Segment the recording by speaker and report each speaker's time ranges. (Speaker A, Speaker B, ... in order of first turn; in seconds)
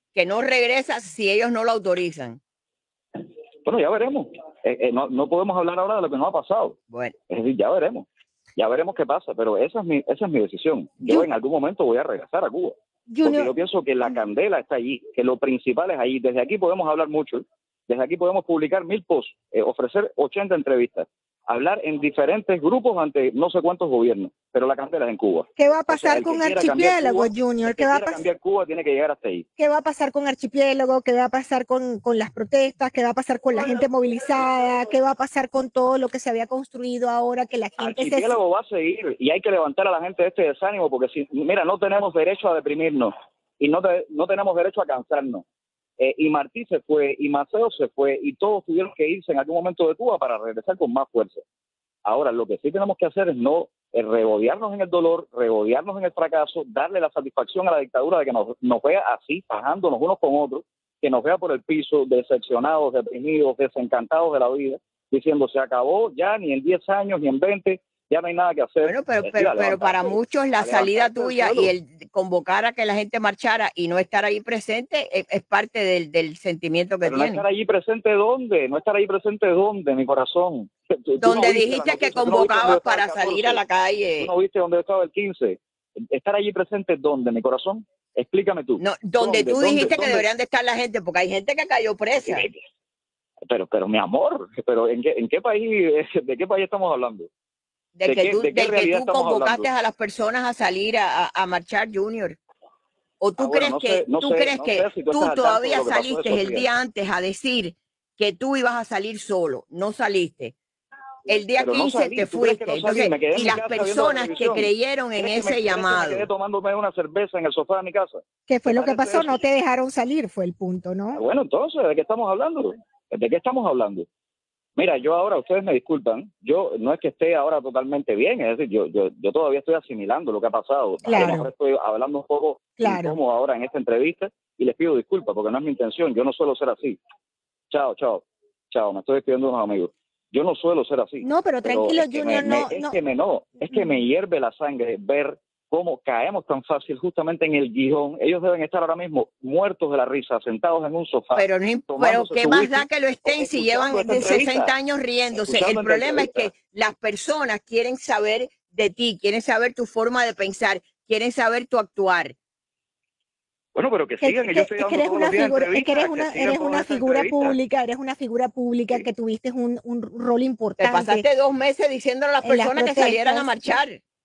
Speaker A: 0.1-2.4, 6.9-7.1, 68.8-77.4, 81.2-84.3, 88.8-92.5, 97.9-102.4, 103.2-110.5, 111.3-116.2, 151.3-162.3, 170.8-174.0
Speaker B: 3.6-6.8, 7.3-29.4, 37.8-45.4, 46.0-51.4, 52.0-71.7, 77.0-83.6, 84.2-90.2, 92.2-92.6, 93.5-97.3, 98.0-99.7, 103.4-106.7, 111.6-119.4, 121.1-124.1, 124.8-137.0, 137.7-154.8, 155.4-156.5, 163.7-167.6
Speaker C: 13.1-13.5, 25.6-28.2, 29.6-38.4, 118.5-121.2, 131.0-131.5, 132.8-133.2, 141.2-143.0, 164.2-171.2, 172.4-173.7